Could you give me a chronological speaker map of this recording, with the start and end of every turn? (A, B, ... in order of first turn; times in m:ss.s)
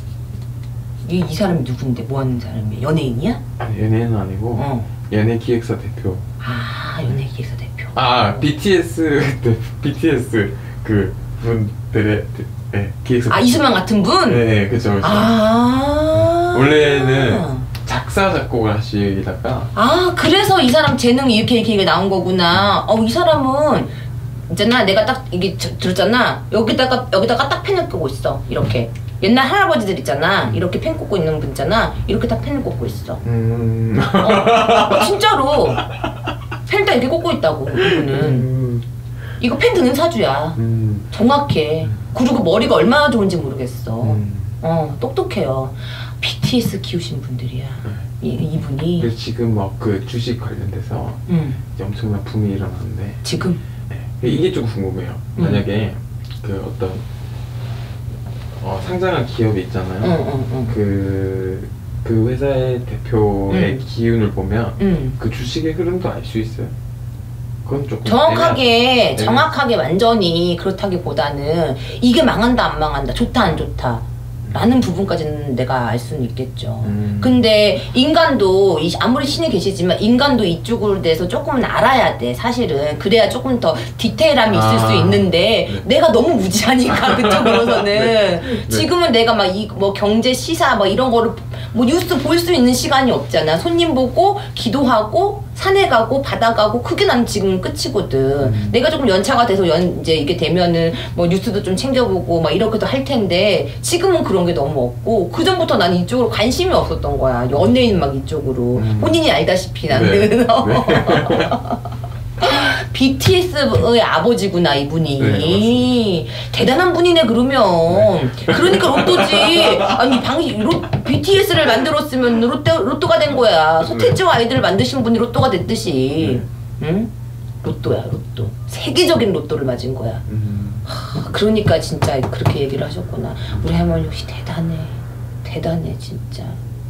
0:01.0-0:03.4 A
0:03.6-0:06.3 B
0:04.6-0:04.9 A
0:06.4-0:08.5 A
0:08.0-0:13.7 B
0:13.3-0:14.4 A
0:14.2-0:15.4 B
0:15.0-0:17.7 A
0:16.1-0:19.7 B
0:19.7-0:23.9 A
0:24.5-0:33.2 A
0:33.2-0:36.0 B
0:34.2-0:35.8 A
0:36.6-0:38.5 A
0:37.7-0:38.9 B
0:39.4-0:40.6 A
0:40.6-0:41.1 B
0:41.1-0:49.1 A
0:44.0-0:44.6 B
0:49.0-0:51.2 B
0:51.3-0:51.6 A
0:51.8-0:53.2 B
0:53.2-0:53.6 A
0:53.9-0:57.0 B
0:55.4-0:55.6 A
0:58.6-1:06.8 B
1:00.0-1:00.8 A
1:03.5-1:03.8 A
1:04.8-1:05.2 A
1:07.6-1:09.5 B
1:08.0-1:51.8 A
1:14.4-1:14.7 B
1:16.8-1:17.4 B
1:24.5-1:25.9 B
1:26.9-1:28.9 B
1:38.4-1:38.8 B
1:48.8-1:49.2 B
1:49.9-1:51.5 B
1:52.4-2:07.1 A
1:55.2-1:55.9 B
1:57.9-2:00.2 B
2:03.8-2:04.2 B
2:06.2-2:06.5 B
2:07.6-2:10.2 A
2:10.3-2:10.9 B
2:10.9-2:16.6 A